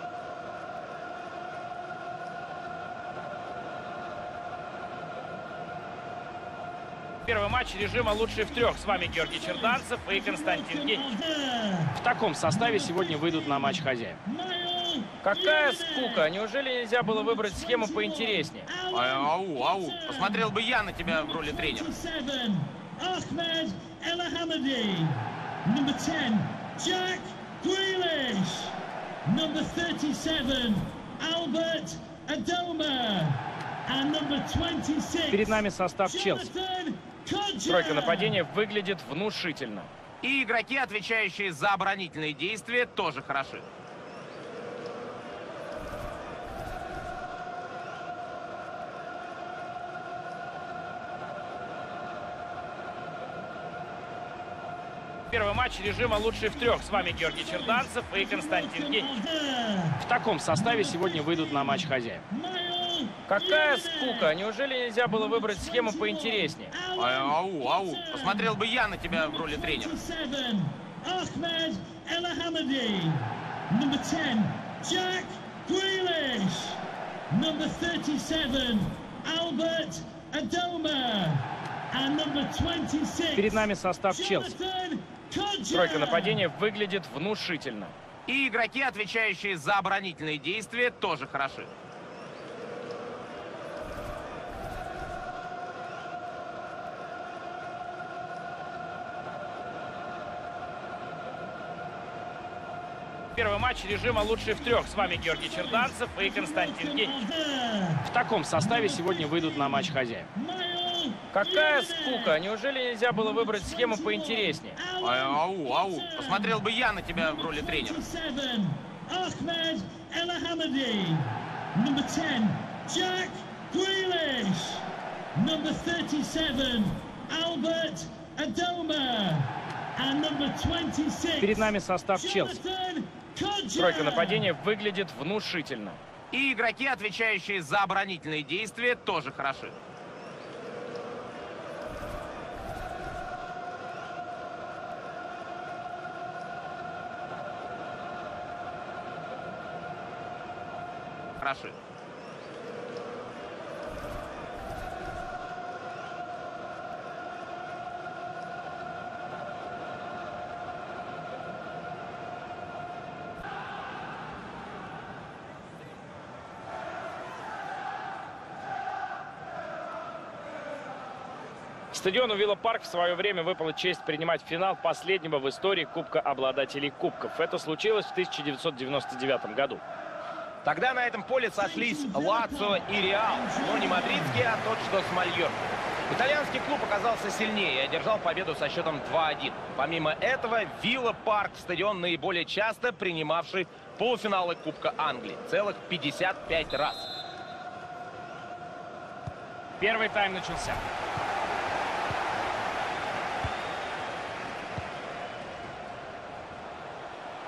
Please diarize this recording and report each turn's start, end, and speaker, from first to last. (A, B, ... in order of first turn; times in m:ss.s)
0:07.2-0:11.1 A
0:10.1-0:11.9 B
0:11.9-0:14.2 A
0:14.2-0:16.2 B
0:15.2-0:18.7 A
0:17.2-0:20.5 B
0:18.9-0:21.9 C
0:21.4-0:38.4 B
0:35.3-0:36.5 A
0:37.7-0:39.9 A
0:40.2-0:43.6 C
0:55.3-0:59.1 A
0:58.3-1:00.0 B
1:00.0-1:02.2 A
1:02.3-1:04.3 B
1:03.3-1:06.8 A
1:05.3-1:08.5 B
1:06.9-1:10.0 C
1:09.5-1:23.5 B
1:23.4-1:24.5 A
1:24.1-1:26.4 B
1:25.7-1:27.9 A
1:28.3-1:31.7 C
1:43.3-1:47.1 A
1:46.3-1:48.0 B
1:48.0-1:50.3 A
1:50.3-1:52.3 B
1:51.3-1:54.8 A
1:53.2-1:56.6 B
1:55.0-1:58.0 C
1:57.4-2:14.5 B
2:11.4-2:12.6 A
2:13.8-2:16.0 A
2:16.3-2:19.7 C
2:31.4-2:31.7 C
2:51.9-2:59.8 A
3:00.6-3:05.6 C
3:01.6-3:04.4 B
3:06.1-3:17.1 C
3:19.8-3:20.8 A